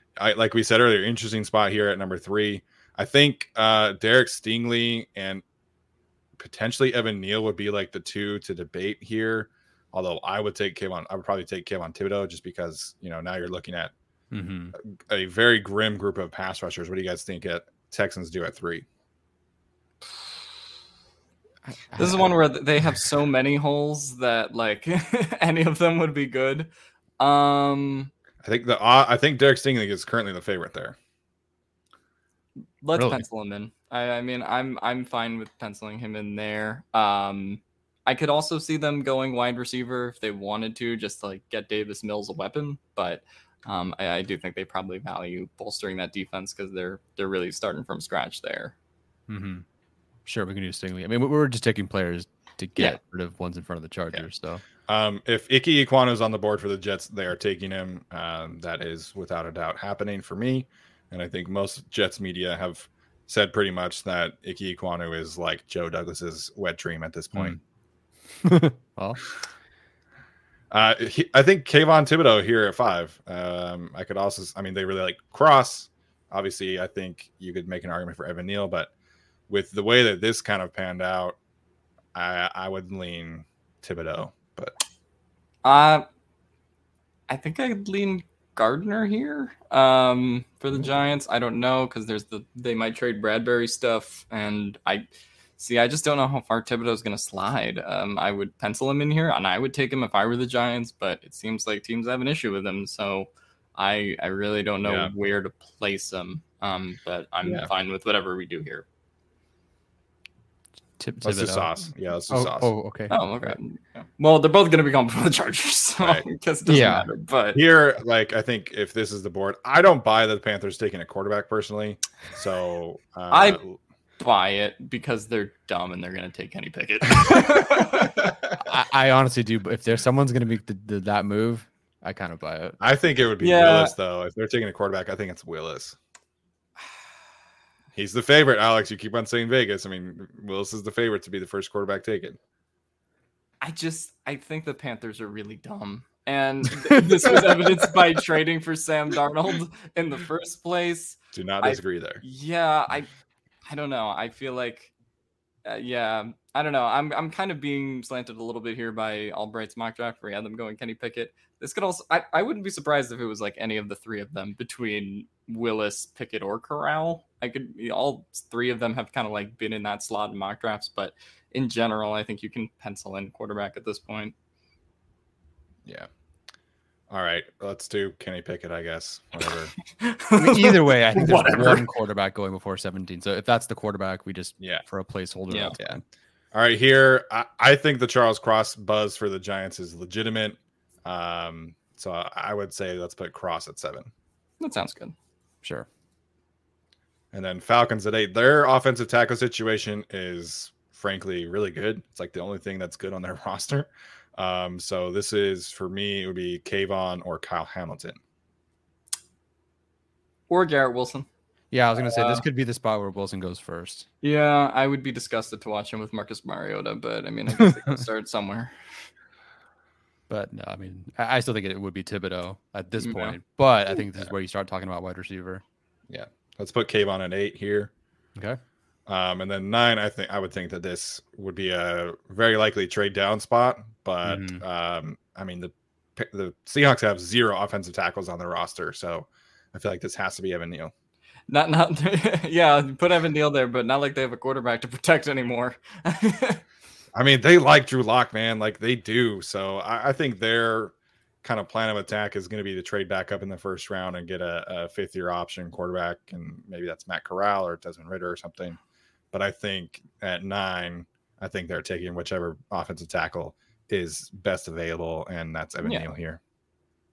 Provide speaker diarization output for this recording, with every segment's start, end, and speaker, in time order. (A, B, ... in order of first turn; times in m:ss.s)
0:00.2-0:05.4 A
0:06.4-0:13.9 A
0:14.3-0:14.8 B
0:15.1-0:18.8 A
0:21.9-0:22.2 B
0:22.0-0:28.1 C
0:28.4-0:31.0 A
0:32.8-0:48.7 C
0:33.0-0:33.2 B
0:49.3-0:49.6 B
0:50.3-0:54.6 B
0:54.9-1:07.6 A
1:07.3-1:07.6 B
1:08.4-1:09.2 B
1:10.7-1:18.9 A
1:19.5-1:21.4 A
1:22.2-1:24.8 A
1:25.6-1:26.1 C
1:27.3-1:35.1 C
1:35.6-1:48.8 C
1:44.8-1:45.1 A
1:47.4-1:47.7 A
1:51.0-1:53.6 B
1:51.2-1:52.7 A
1:53.1-1:57.6 C
1:56.7-1:57.1 B
1:57.5-2:03.8 A
2:03.3-2:03.6 C
2:04.2-2:08.1 C
2:08.0-2:08.5 A
2:08.6-2:12.8 B
2:12.8-2:16.0 A
2:13.4-2:13.9 C
2:17.9-2:22.4 A
2:23.6-2:33.1 C
2:31.3-2:32.2 A
2:33.6-2:34.9 C
2:35.6-2:54.3 C
2:57.1-2:59.7 A
3:00.0-3:01.8 C
3:00.4-3:06.0 B
3:06.5-3:14.1 A
3:14.6-3:15.2 C
3:17.3-3:28.2 A
3:30.5-3:31.3 C
3:31.7-3:34.1 B
3:32.1-3:32.4 C
3:34.2-3:39.1 C
3:40.3-3:45.6 B
3:43.0-3:43.4 C
3:46.1-3:47.9 A
3:49.1-4:00.9 A
3:54.2-3:54.6 B
4:01.5-4:06.6 C
4:07.2-4:18.8 A
4:19.3-4:26.4 A
4:25.8-4:26.1 C